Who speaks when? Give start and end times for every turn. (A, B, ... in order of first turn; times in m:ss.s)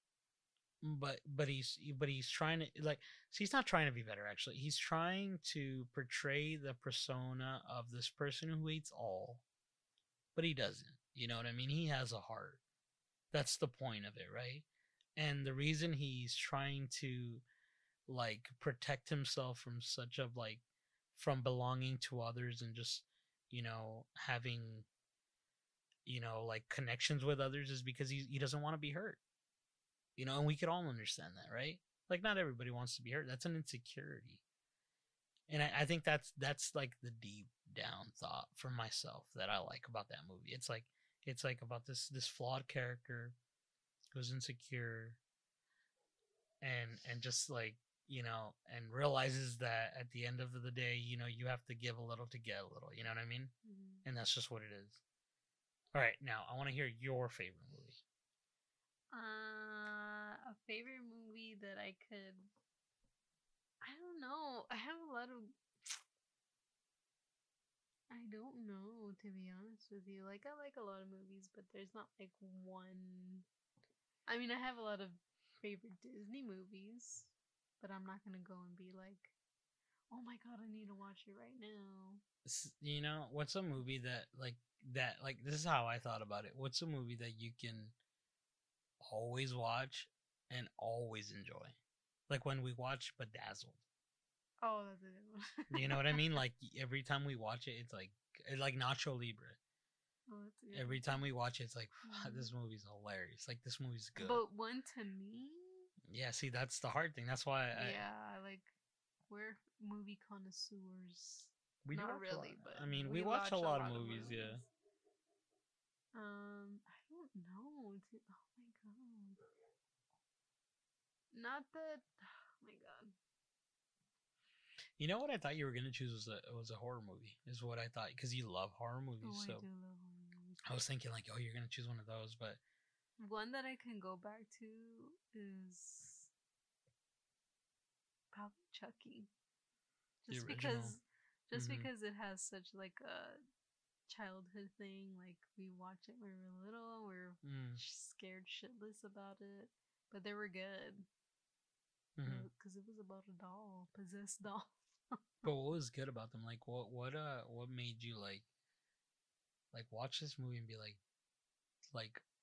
0:00.8-0:09.4 A
0:10.3-0:12.6 A
0:13.3-0:14.6 A
0:15.2-0:17.4 A
0:18.1-0:20.6 A
0:21.1-0:24.9 A
0:26.0-0:29.2 A
0:30.2-0:34.4 A
0:35.5-0:43.4 A
0:44.1-0:45.2 A
0:46.6-0:53.5 A
0:53.6-0:54.0 B
0:54.0-0:55.0 A
0:55.9-0:58.0 A
0:59.1-1:02.4 B
1:03.8-1:05.5 B
1:08.1-1:13.4 B
1:14.3-1:19.3 B
1:20.1-1:22.2 B
1:22.4-1:27.9 A
1:29.0-1:31.8 A
1:32.3-1:33.8 A
1:34.6-1:36.4 B
1:35.7-1:39.6 A
1:40.3-1:41.2 B
1:40.7-1:44.4 A
1:42.0-1:42.5 B
1:44.2-1:45.9 B
1:46.1-1:48.0 A
1:47.8-1:48.7 B
1:49.3-1:54.7 B
1:51.8-1:54.6 A
1:56.1-1:59.4 B
2:01.3-2:03.1 B
2:05.0-2:09.6 A
2:09.2-2:10.6 B
2:10.6-2:12.6 A
2:13.2-2:16.3 B
2:18.3-2:19.3 B
2:20.2-2:23.4 B
2:20.3-2:21.0 A
2:21.5-2:21.9 A
2:24.1-2:31.1 B
2:27.4-2:27.8 A
2:32.2-2:32.5 A
2:32.2-2:35.4 B
2:35.4-2:38.4 A
2:39.7-2:41.0 A
2:41.9-2:42.2 A